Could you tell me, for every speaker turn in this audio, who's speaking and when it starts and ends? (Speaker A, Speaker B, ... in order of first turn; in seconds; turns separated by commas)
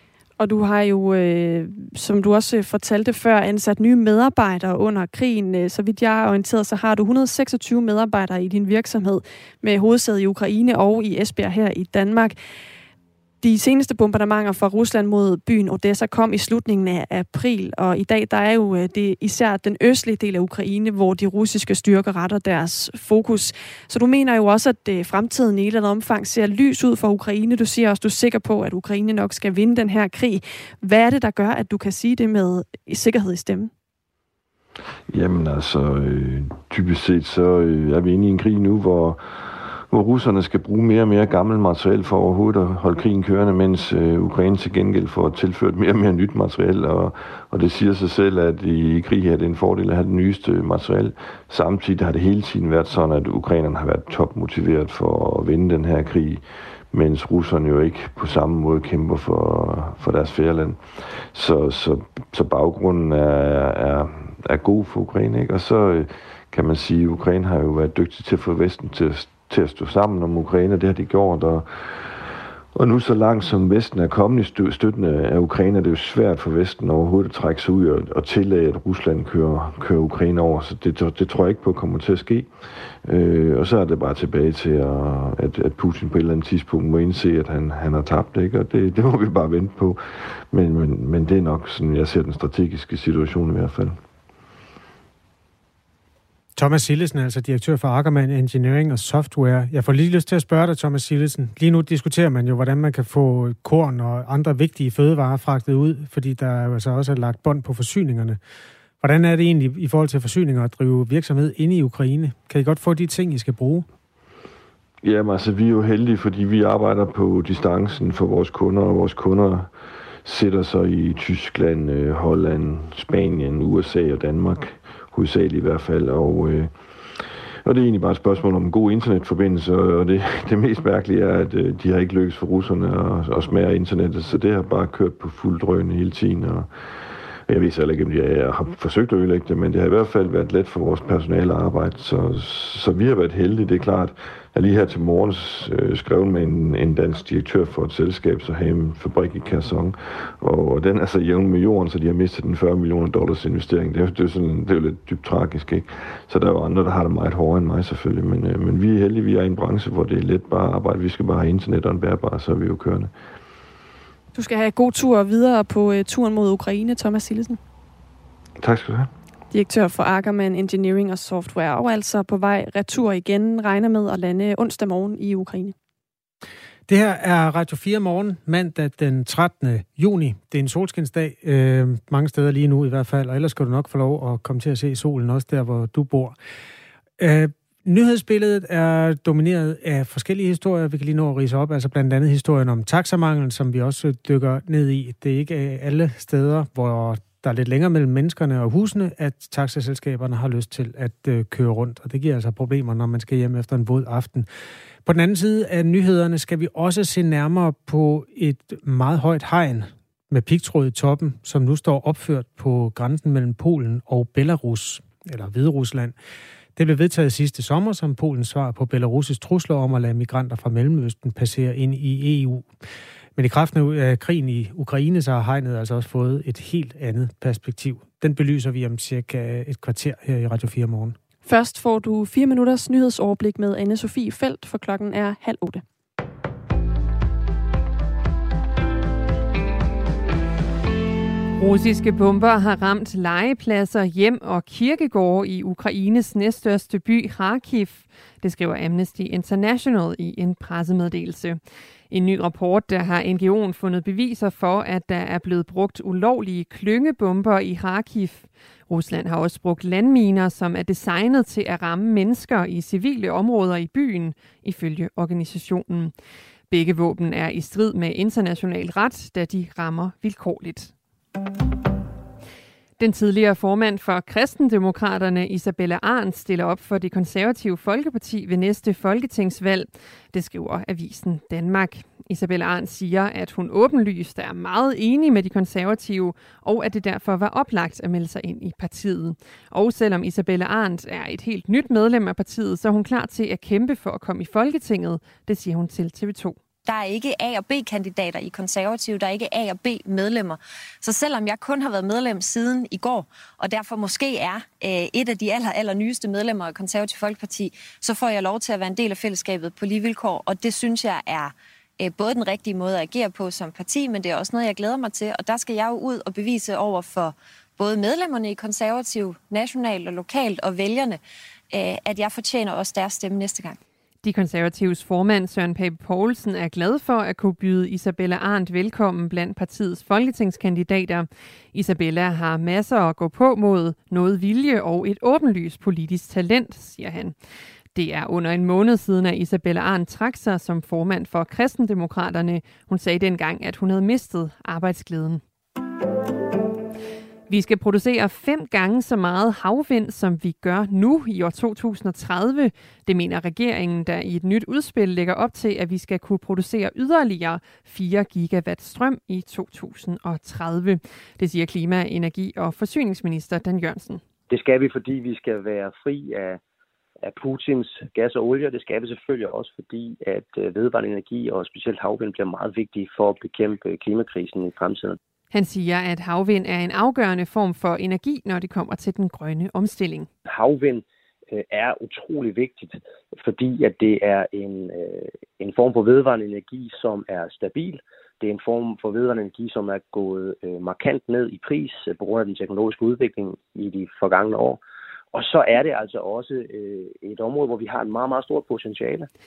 Speaker A: 0.4-12.4, Speaker A: 13.4-33.7, Speaker B: 35.1-94.0, Speaker C: 96.6-108.4, Speaker C: 109.0-113.9, Speaker B: 115.0-119.7, Speaker B: 120.2-163.1, Speaker A: 164.3-167.6, Speaker B: 168.6-169.1, Speaker A: 169.5-175.8, Speaker C: 176.9-186.4, Speaker C: 187.2-204.5, Speaker C: 205.1-216.2, Speaker C: 216.8-222.7, Speaker C: 223.4-231.2, Speaker A: 231.5-235.8, Speaker D: 241.6-266.1, Speaker D: 266.7-270.9, Speaker D: 273.0-296.6, Speaker E: 296.9-323.8, Speaker D: 324.2-337.4, Speaker D: 337.9-345.4, Speaker D: 347.5-364.2, Speaker F: 364.5-366.6, Speaker F: 367.2-375.2, Speaker D: 375.5-380.3, Speaker F: 380.5-394.8, Speaker F: 395.3-399.3